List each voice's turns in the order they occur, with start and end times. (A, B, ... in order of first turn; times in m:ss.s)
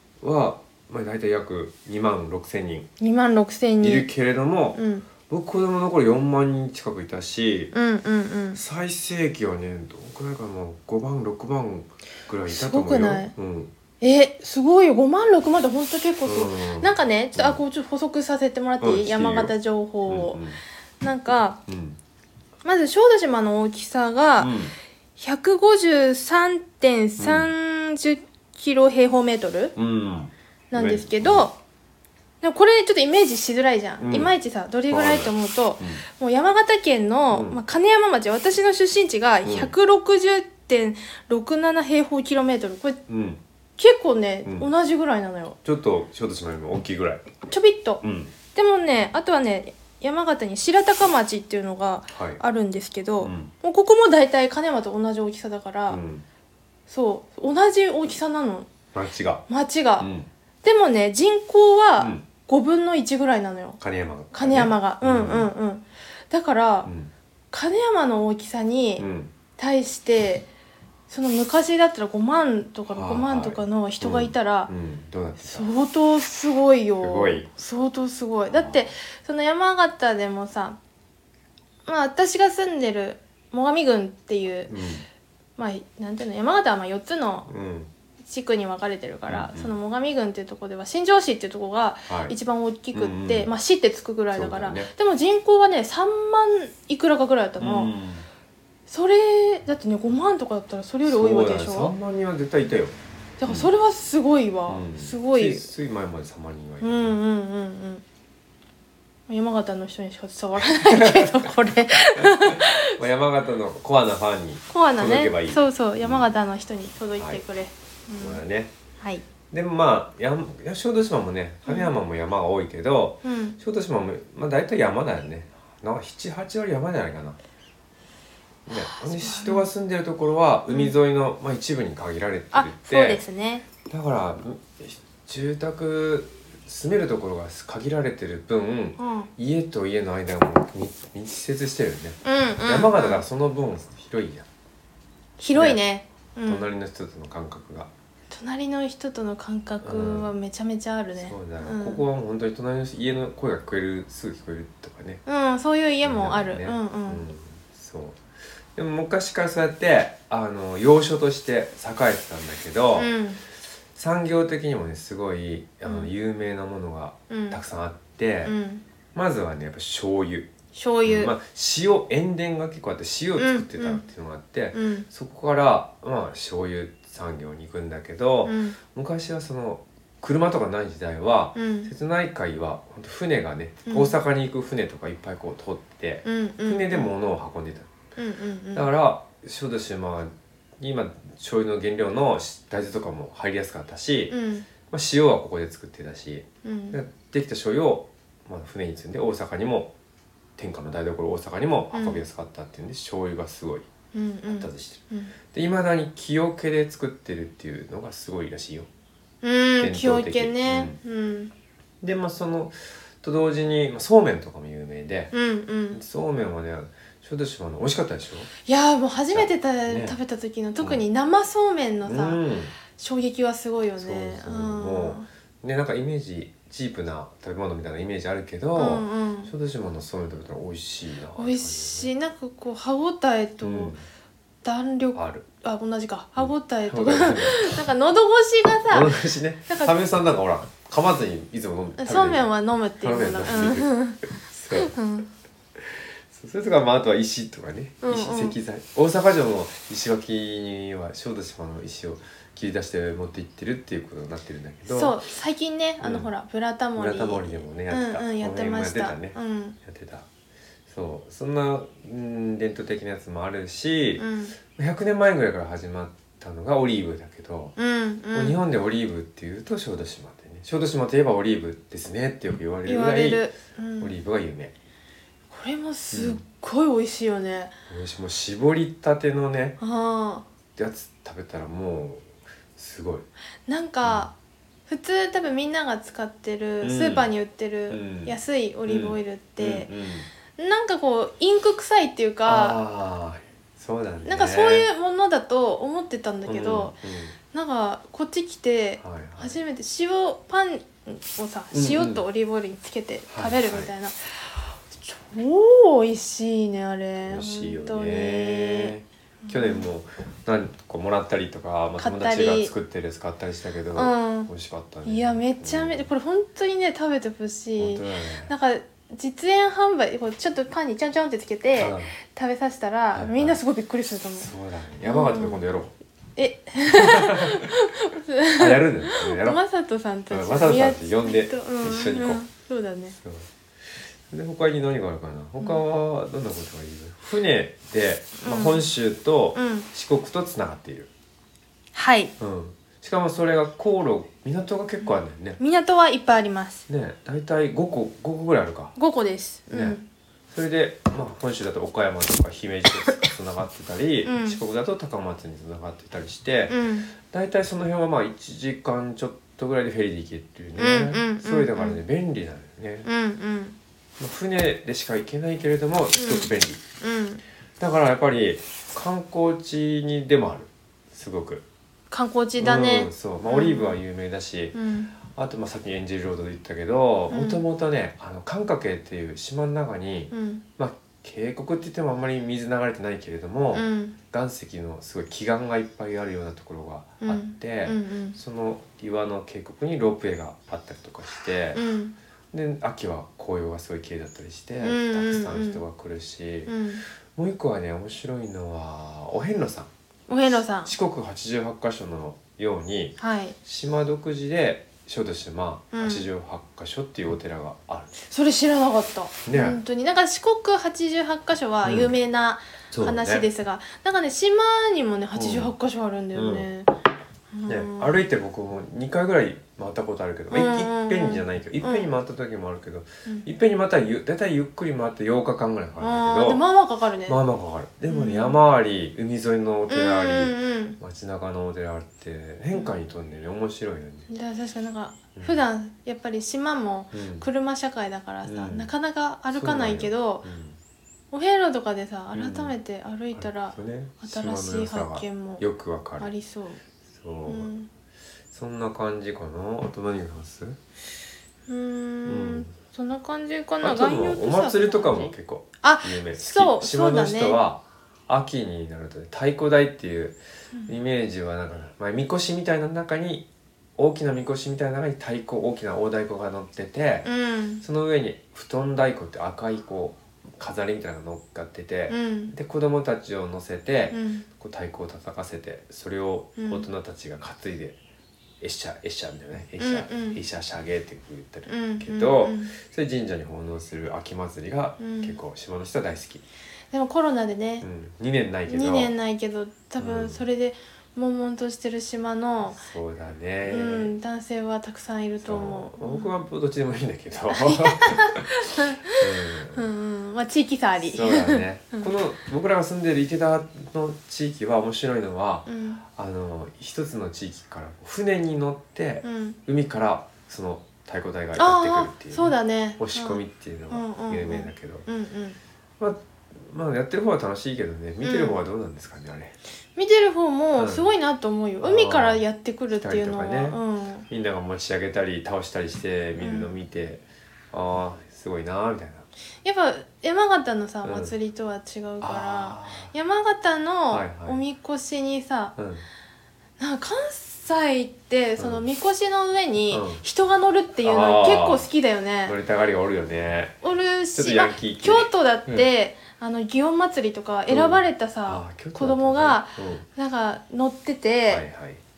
0:00.2-0:02.9 A
0:03.0-0:04.1 B
0:03.8-0:07.7 A
0:04.7-0:05.1 B
0:07.7-0:08.6 B
0:08.5-0:13.7 A
0:12.5-0:13.3 B
0:14.0-0:20.4 B
0:16.2-0:17.6 A
0:18.8-0:20.6 A
0:21.0-0:21.6 B
0:21.7-0:22.0 A
0:22.6-0:24.6 B
0:24.4-0:24.7 A
0:25.2-0:29.7 B
0:27.2-0:27.5 A
0:29.8-0:31.5 A
0:30.7-0:31.6 B
0:32.4-0:43.0 B
0:34.0-0:34.3 A
0:34.9-0:36.0 A
0:37.3-0:37.6 A
0:39.4-0:39.7 A
0:43.1-0:43.4 A
0:43.8-0:45.6 B
0:44.4-0:44.7 A
0:45.6-0:47.3 A
0:47.5-0:48.0 B
0:48.0-0:48.3 A
0:48.5-0:56.0 B
0:52.1-0:52.4 A
0:53.2-0:53.5 A
0:55.9-0:56.2 A
0:56.9-0:58.7 B
0:58.9-0:59.4 A
0:59.5-1:00.1 B
1:00.0-1:00.3 A
1:00.6-1:03.8 B
1:02.0-1:02.2 A
1:03.8-1:05.5 A
1:04.3-1:06.9 B
1:06.8-1:07.1 A
1:07.5-1:10.5 B
1:09.0-1:09.3 A
1:11.1-1:14.7 B
1:12.9-1:15.7 A
1:15.4-1:20.8 B
1:17.0-1:17.5 A
1:18.5-1:18.9 A
1:21.8-1:24.7 B
1:24.7-1:25.0 A
1:25.6-1:27.5 B
1:27.5-1:27.9 A
1:28.2-1:37.9 B
1:29.3-1:29.7 A
1:32.1-1:32.3 A
1:32.9-1:33.5 A
1:34.3-1:34.9 A
1:37.6-1:38.3 A
1:38.9-1:41.9 B
1:41.0-1:42.9 A
1:43.4-1:45.7 B
1:43.4-1:43.7 A
1:44.7-1:47.2 A
1:46.8-1:48.0 B
1:49.3-1:53.0 B
1:50.6-1:51.5 A
1:52.1-1:56.3 A
1:54.7-1:58.4 B
1:58.2-1:58.7 A
1:59.5-2:07.4 A
2:01.6-2:01.9 B
2:03.2-2:03.6 B
2:08.7-2:13.2 A
2:08.7-2:09.7 B
2:10.7-2:10.9 B
2:12.5-2:13.6 B
2:13.8-2:24.5 A
2:19.0-2:19.3 B
2:22.2-2:23.2 B
2:25.4-2:26.6 B
2:25.5-2:25.8 A
2:26.4-2:27.9 A
2:28.3-2:32.0 B
2:29.8-2:30.3 A
2:31.2-2:35.2 A
2:35.2-2:37.3 B
2:36.0-2:38.2 A
2:38.7-2:43.1 A
2:43.0-2:43.4 B
2:43.9-2:48.6 A
2:45.8-2:46.1 B
2:47.3-2:47.6 B
2:48.4-2:48.8 B
2:49.1-2:50.5 A
2:50.7-2:51.3 B
2:51.0-3:07.9 A
2:53.4-2:54.0 B
2:54.7-2:55.1 B
2:58.4-2:58.8 B
3:01.6-3:01.9 B
3:03.9-3:04.1 B
3:06.2-3:07.1 B
3:08.2-3:08.8 B
3:08.7-3:19.9 A
3:14.3-3:14.7 B
3:16.6-3:17.0 B
3:20.6-3:23.9 A
3:21.9-3:22.2 B
3:24.1-3:25.3 B
3:24.5-3:28.9 A
3:29.4-3:31.5 B
3:29.8-3:31.0 A
3:32.0-3:35.3 A
3:35.3-3:36.0 B
3:35.9-3:38.5 A
3:38.6-3:42.4 B
3:39.3-3:40.2 A
3:42.0-3:42.7 A
3:42.9-3:45.3 B
3:44.0-3:52.1 A
3:48.8-3:49.5 B
3:51.3-3:53.9 B
3:53.6-3:54.0 A
3:54.6-3:59.2 B
3:55.1-3:55.4 A
3:56.4-3:57.8 A
3:58.9-4:02.5 A
3:59.7-3:59.9 B
4:02.0-4:04.2 B
4:03.0-4:04.9 A
4:04.7-4:05.3 B
4:05.8-4:15.2 A
4:08.0-4:08.6 B
4:14.8-4:19.8 B
4:16.0-4:16.3 A
4:17.0-4:20.3 A
4:20.9-4:27.7 A
4:24.2-4:24.5 B
4:27.8-4:28.6 B
4:28.3-4:34.7 A
4:32.8-4:34.2 B
4:35.5-4:37.7 B
4:36.1-4:36.4 A
4:37.9-4:39.8 A
4:39.8-4:40.4 B
4:40.8-4:43.3 A
4:43.7-4:44.3 B
4:44.0-4:44.3 A
4:44.9-4:49.9 B
4:46.8-4:47.3 A
4:47.9-4:48.4 A
4:48.9-4:50.3 A
4:50.6-4:52.8 B
4:52.4-4:54.9 A
4:54.2-4:57.0 B
4:56.4-4:57.4 A
4:57.5-5:09.9 B
4:59.0-4:59.6 A
5:01.7-5:02.2 A
5:03.3-5:03.9 A
5:07.2-5:16.1 A
5:12.0-5:12.7 B
5:13.9-5:14.5 B
5:15.0-5:24.5 B
5:17.8-5:18.5 A
5:21.8-5:22.1 A
5:23.1-5:23.6 A
5:24.3-5:25.9 A
5:25.0-5:25.6 B
5:26.4-5:33.2 B
5:26.8-5:27.8 A
5:28.5-5:29.6 A
5:30.3-5:32.4 A
5:33.2-5:41.1 A
5:38.4-5:38.9 B
5:39.5-5:39.9 B
5:41.9-5:42.3 B
5:42.4-5:45.6 A
5:45.6-5:46.8 B
5:46.9-5:48.9 A
5:49.0-5:50.0 B
5:49.7-5:50.0 A
5:50.5-6:03.1 A
5:54.2-5:54.6 B
5:56.7-5:57.1 B
6:00.8-6:02.0 B
6:03.0-6:03.8 B
6:04.2-6:06.8 A
6:06.1-6:07.4 B
6:07.8-6:11.6 A
6:12.1-6:14.0 B
6:12.6-6:31.8 A
6:14.7-6:15.1 B
6:17.3-6:17.6 B
6:20.3-6:20.6 B
6:23.7-6:24.2 B
6:27.2-6:28.4 B
6:31.7-6:32.1 B
6:32.5-6:36.8 A
6:34.8-6:35.8 B
6:36.7-6:37.0 B
6:37.3-6:39.9 A
6:40.3-6:40.9 B
6:40.8-6:48.1 A
6:43.2-6:43.6 B
6:45.9-6:46.2 B
6:48.2-6:56.9 B
6:49.4-6:49.8 A
6:51.8-6:52.1 A
6:52.9-6:53.5 A
6:55.4-6:55.7 A
6:56.3-6:56.7 A
6:57.5-6:58.1 B
6:57.6-7:06.6 A
7:00.5-7:02.1 B
7:06.0-7:07.4 B
7:07.3-7:14.3 A
7:08.1-7:08.6 B
7:09.9-7:11.0 B
7:14.3-7:20.5 B
7:15.3-7:15.6 A
7:17.1-7:17.5 A
7:18.4-7:18.9 A
7:19.5-7:20.8 A
7:21.3-7:25.6 B
7:22.3-7:22.8 A
7:23.3-7:26.3 A
7:26.2-7:26.8 B
7:27.1-7:27.7 A
7:27.5-7:27.9 B
7:28.5-7:30.8 A
7:31.7-7:37.6 B
7:32.2-7:32.7 A
7:33.8-7:47.3 A
7:47.2-7:47.8 B
7:47.8-7:58.0 A
7:52.1-7:52.5 B
7:54.1-7:54.4 B
7:56.6-7:56.9 B
7:58.6-8:06.4 A
7:59.8-8:00.4 B
8:01.7-8:02.7 B
8:05.0-8:05.4 B
8:06.9-8:07.8 B
8:07.8-8:09.1 A
8:08.7-8:12.8 B
8:10.0-8:10.4 A
8:12.7-8:14.1 A
8:13.6-8:16.3 B
8:15.4-8:19.8 A
8:17.5-8:22.1 B
8:21.0-8:35.1 A
8:25.7-8:26.0 B
8:29.2-8:29.6 B
8:31.6-8:35.6 B
8:36.0-8:39.6 A
8:38.2-8:38.6 B
8:40.0-8:44.2 B
8:40.8-8:41.1 A
8:41.8-8:49.3 A
8:46.4-8:46.7 B
8:49.6-8:55.8 B
8:51.0-8:51.3 A
8:52.2-8:53.1 A
8:54.1-8:54.6 A
8:55.8-8:56.0 A
8:56.8-9:02.6 B
8:58.6-8:58.8 A
8:59.9-9:00.2 A
9:01.0-9:01.9 A
9:02.4-9:03.8 A
9:03.8-9:11.6 B
9:04.3-9:05.9 A
9:07.7-9:10.0 A
9:11.5-9:12.0 A